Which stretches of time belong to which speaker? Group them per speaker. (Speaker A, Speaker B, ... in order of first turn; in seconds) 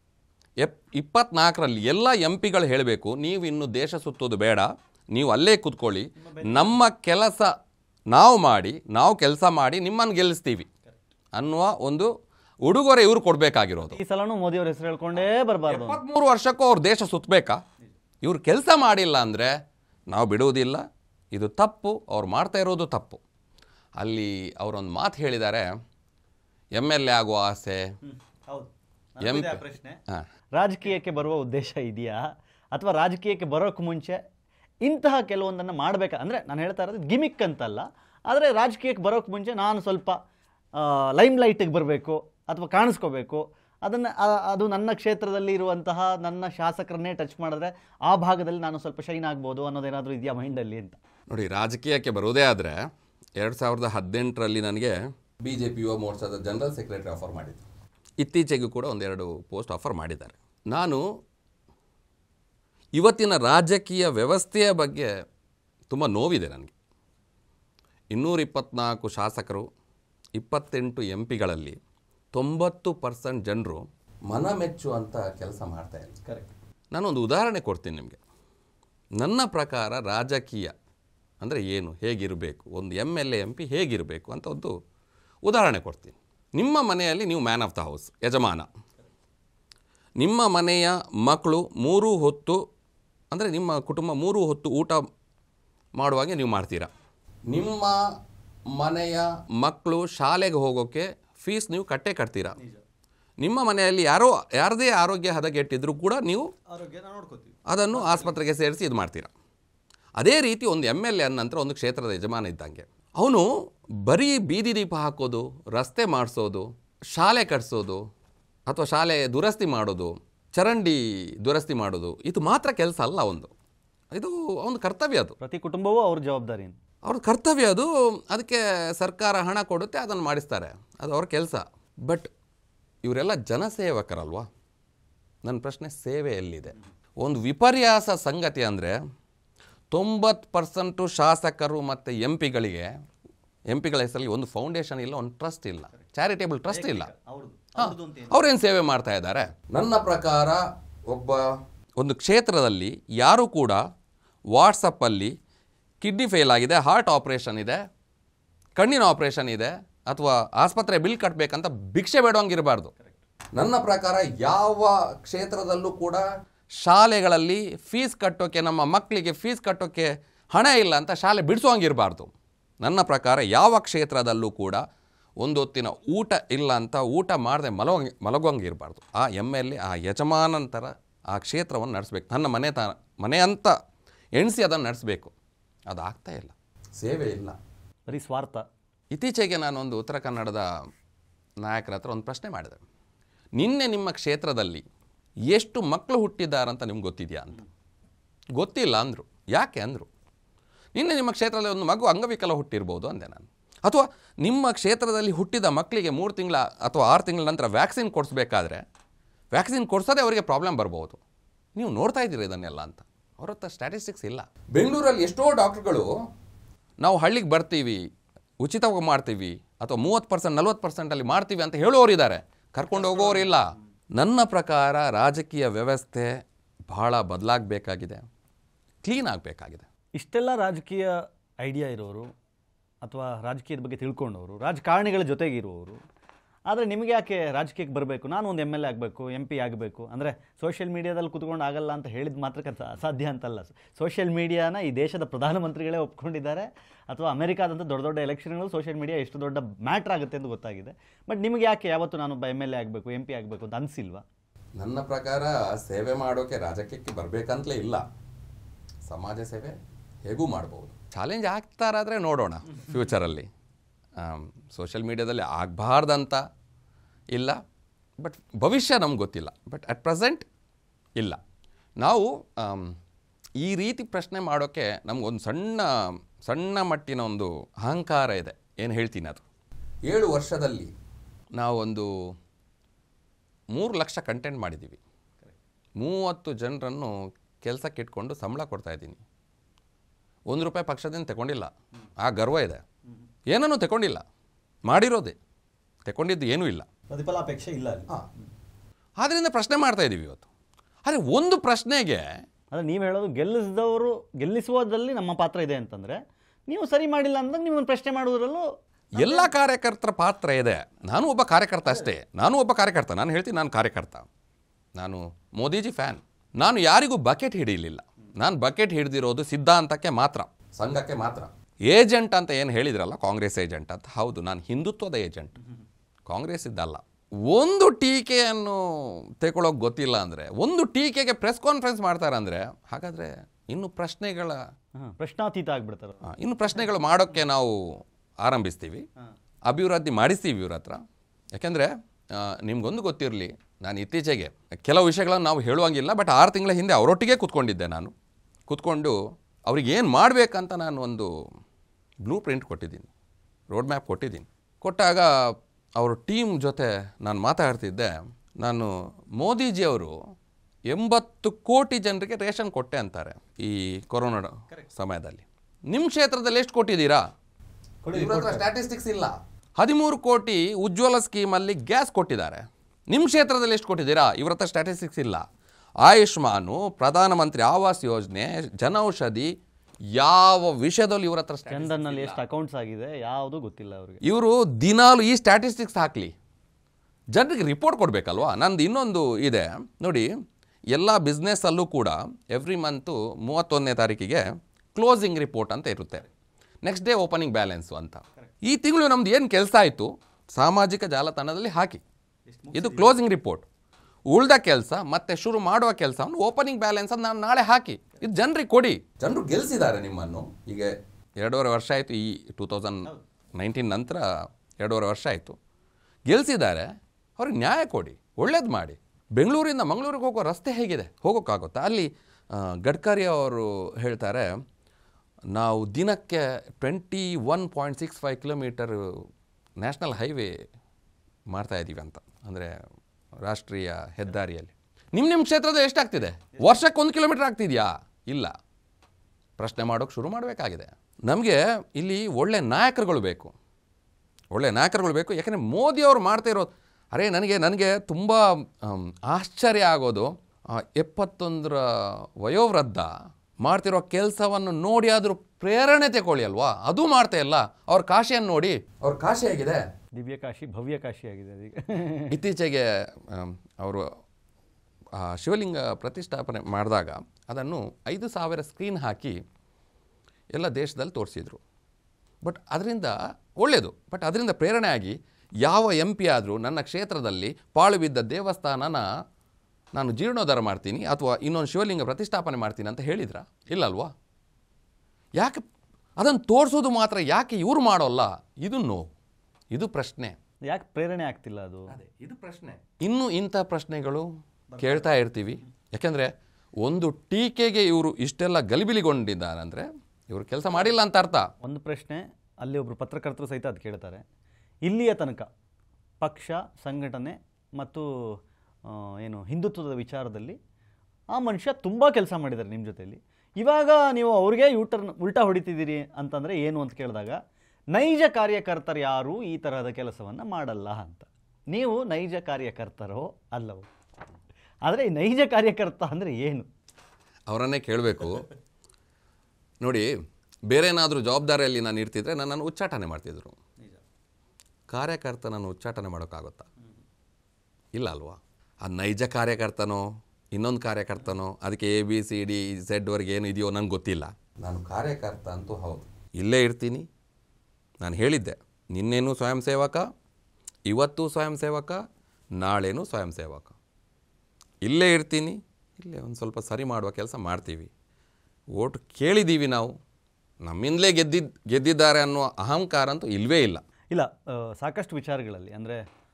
Speaker A: 0.6-7.5, 8.1-10.7, 11.3-12.1, 12.6-14.0, 15.7-17.6, 18.2-19.5, 20.1-23.2, 24.0-25.7, 26.7-27.9, 29.2-30.2, 51.3-52.8, 53.4-57.6, 58.2-61.0, 62.9-65.1, 65.9-66.7, 68.1-69.7, 70.3-71.8, 72.3-76.1, 76.9-78.2, 79.2-80.7, 81.4-84.8, 85.4-88.7, 90.2-92.6, 93.3-95.0, 96.0-96.9, 97.5-98.0, 98.7-102.6, 103.4-106.5, 107.7-109.3, 110.2-113.5, 114.0-118.0, 118.7-123.5, 124.1-125.3, 127.0-132.3, 133.0-134.5, 135.4-139.0, 139.9-142.9, 143.7-147.1, 147.8-153.8, 154.5-155.3, 156.0-157.8, 158.8-162.9, 163.5-166.2, 166.8-174.8, 175.4-183.8, 184.3-185.3, 185.9-187.6, 189.1-190.7, 191.6-192.8, 193.6-194.8, 195.5-197.6, 198.5-200.1, 200.9-208.8, 209.5-211.2, 211.7-216.1, 217.0-218.0, 218.6-226.4, 226.9-228.2, 229.0-229.8, 254.8-258.0, 259.0-263.5, 264.2-266.4, 267.3-267.6, 268.2-270.4, 272.0-272.9, 273.6-275.9, 276.4-279.4, 280.1-280.9, 281.6-282.1, 283.7-285.0, 286.0-289.2, 290.5-292.8, 293.5-294.2, 294.9-295.4, 296.1-296.9, 299.2-300.4, 301.0-302.3, 309.2-314.3, 314.9-325.6, 326.2-334.6, 336.2-339.1, 339.6-341.0, 341.5-348.1, 348.7-351.3, 352.2-353.1, 353.7-360.1, 360.9-367.2, 368.1-375.4, 376.0-379.5, 380.1-382.4, 384.2-386.3, 387.3-390.3, 390.9-396.3, 396.8-402.0, 402.7-403.6, 404.3-414.3, 414.8-415.6, 416.3-424.5, 425.5-429.2, 429.8-430.6, 431.5-432.7, 433.4-438.5, 439.6-443.5, 444.5-459.9, 462.3-464.1, 465.1-469.4, 470.5-471.6, 472.4-479.1, 479.9-484.1, 485.4-485.6, 486.2-489.1, 489.7-490.4, 491.9-501.5, 527.5-528.5, 529.8-530.1, 530.7-533.6, 534.9-536.7, 537.9-547.1, 548.0-550.0, 550.9-552.0, 552.6-553.8, 554.8-557.9, 558.7-560.0, 560.6-563.8
Speaker B: 6.2-6.8, 13.8-16.0, 28.0-30.0, 30.5-34.2, 34.8-40.2, 40.7-51.0, 76.2-76.5, 102.6-102.8, 106.7-108.4, 125.4-126.8, 146.7-148.4, 188.1-188.6, 222.9-223.5, 230.2-232.3, 233.0-236.0, 236.7-254.2, 297.1-298.1, 302.7-309.5, 334.9-336.3, 368.0-368.7, 381.7-384.2, 402.5-403.2, 436.5-436.8, 460.1-462.3, 490.6-491.9, 494.7-495.1, 501.6-504.2, 504.9-505.5, 506.2-510.6, 511.3-517.4, 517.9-523.9, 524.8-526.7, 564.1-566.0